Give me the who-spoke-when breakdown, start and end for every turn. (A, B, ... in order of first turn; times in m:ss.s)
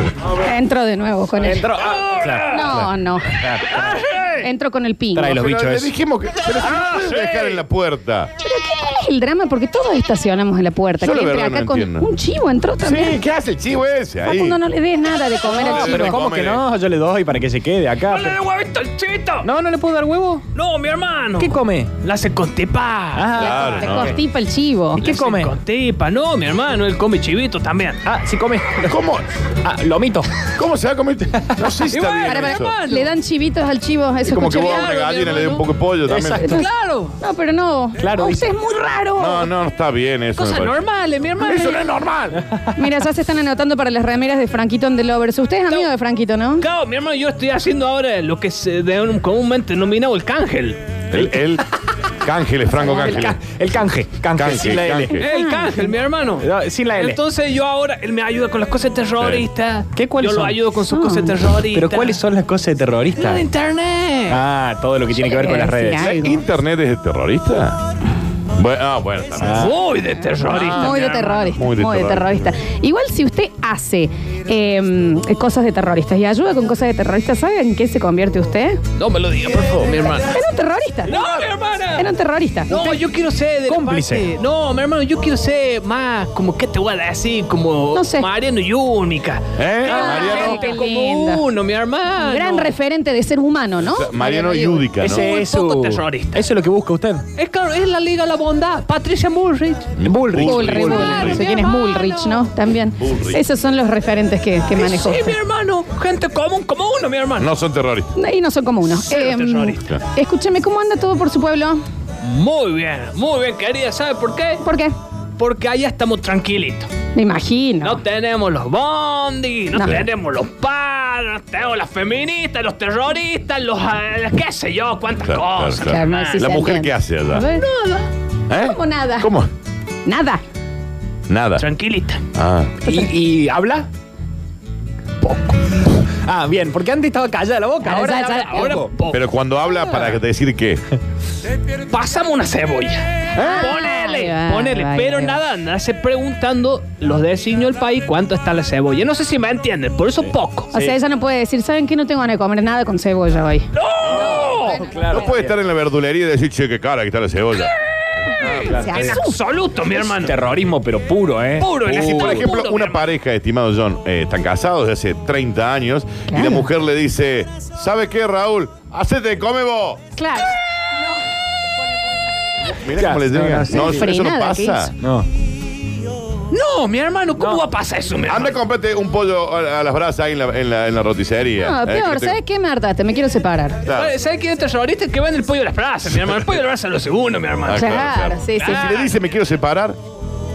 0:00.2-0:01.7 A
0:01.4-0:04.0 B
0:01.7-0:02.7 C
0:02.4-0:03.6 A
0:03.7-0:04.4 C
0:04.4-0:05.4 A
0:05.1-0:05.9 B
0:05.2-0:08.3 D
0:06.6-0:07.6 C
0:08.4-0:13.2 A
0:11.0-0:12.1 D
0:12.8-0:14.6 D
0:14.2-0:16.2 A
0:15.4-0:18.4 B
0:15.5-0:16.6 D
0:18.0-0:19.5 C
0:19.4-0:20.4 B
0:20.5-0:23.3 C
0:21.4-0:21.9 B
0:23.1-0:24.2 B
0:23.4-0:24.2 D
0:23.4-0:25.1 A
0:25.0-0:25.5 B
0:25.0-0:28.0 C
0:28.0-0:29.0 B
0:28.8-0:29.2 D
0:29.6-0:30.3 B
0:30.6-0:32.8 D
0:31.4-0:31.9 B
0:31.9-0:33.1 C
0:32.2-0:35.0 A
0:34.2-0:36.5 D
0:34.6-0:35.6 C
0:36.0-0:36.6 B
0:36.4-0:37.2 C
0:36.4-0:36.7 A
0:37.2-0:39.5 A
0:38.0-0:38.5 B
0:39.2-0:40.8 D
0:40.4-0:41.9 C
0:41.4-0:42.4 D
0:42.3-0:42.7 B
0:42.7-0:46.6 A
0:46.6-0:50.8 C
0:51.1-0:51.6 D
0:52.2-0:53.4 D
0:52.8-0:53.2 A
0:52.8-0:55.2 B
0:54.3-0:55.2 D
0:55.1-0:56.0 A
0:55.2-1:02.2 C
0:56.4-0:57.2 B
0:59.2-0:59.4 D
1:00.0-1:00.6 B
1:00.9-1:01.4 A
1:01.7-1:03.4 B
1:03.1-1:04.4 C
1:04.3-1:06.2 B
1:05.1-1:06.4 A
1:06.0-1:07.8 D
1:08.5-1:09.7 D
1:09.4-1:09.8 B
1:09.5-1:11.6 C
1:10.5-1:11.0 D
1:10.6-1:18.8 A
1:11.6-1:12.4 D
1:19.0-1:20.4 C
1:20.3-1:21.2 A
1:21.1-1:22.1 C
1:22.0-1:23.0 A
1:22.7-1:32.8 C
1:23.7-1:24.3 B
1:27.9-1:28.3 A
1:29.6-1:30.6 D
1:29.8-1:31.4 A
1:32.2-1:34.9 A
1:33.8-1:35.3 D
1:35.0-1:37.2 B
1:35.0-1:36.4 C
1:37.4-1:39.9 C
1:40.0-1:41.4 D
1:40.0-1:41.4 B
1:40.4-1:45.4 A
1:40.8-1:42.4 C
1:43.0-1:43.4 D
1:44.7-1:47.5 C
1:47.4-1:48.1 D
1:48.2-1:51.8 A
1:48.9-1:49.8 C
1:52.2-1:54.6 C
1:54.6-1:54.9 A
1:55.4-1:56.9 C
1:57.1-1:58.0 A
1:57.8-2:06.5 C
1:59.7-2:00.0 A
2:05.2-2:07.5 D
2:05.8-2:07.6 A
2:07.5-2:08.1 C
2:08.5-2:09.5 D
2:08.5-2:09.3 A
2:10.0-2:10.4 A
2:11.3-2:11.6 D
2:11.6-2:12.2 C
2:12.3-2:12.8 D
2:12.8-2:13.1 A
2:12.8-2:13.9 B
2:15.2-2:15.6 C
2:16.0-2:18.9 B
2:17.8-2:18.8 A
2:18.4-2:19.9 C
2:19.1-2:20.8 D
2:21.9-2:30.7 C
2:23.4-2:23.7 D
2:23.4-2:25.4 A
2:30.2-2:31.0 B
2:30.7-2:33.7 A
2:33.7-2:34.8 C
2:34.1-2:34.6 D
2:34.1-2:35.6 B
2:34.3-2:35.2 A
2:35.1-2:37.7 D
2:37.6-2:40.4 C
2:38.4-2:39.2 B
2:38.6-2:39.4 A
2:40.0-2:42.5 B
2:41.6-2:43.2 C
2:41.8-2:50.0 D
2:46.3-2:46.7 A
2:50.2-2:50.5 A
2:52.6-2:54.9 D
2:52.9-2:53.9 B
2:53.7-2:54.9 A
2:55.0-2:55.3 B
2:56.5-2:58.6 C
2:58.2-3:02.4 D
3:01.6-3:03.8 A
3:03.8-3:04.1 D
3:03.9-3:07.9 C
3:07.6-3:10.0 D
3:07.7-3:08.9 A
3:08.6-3:09.3 C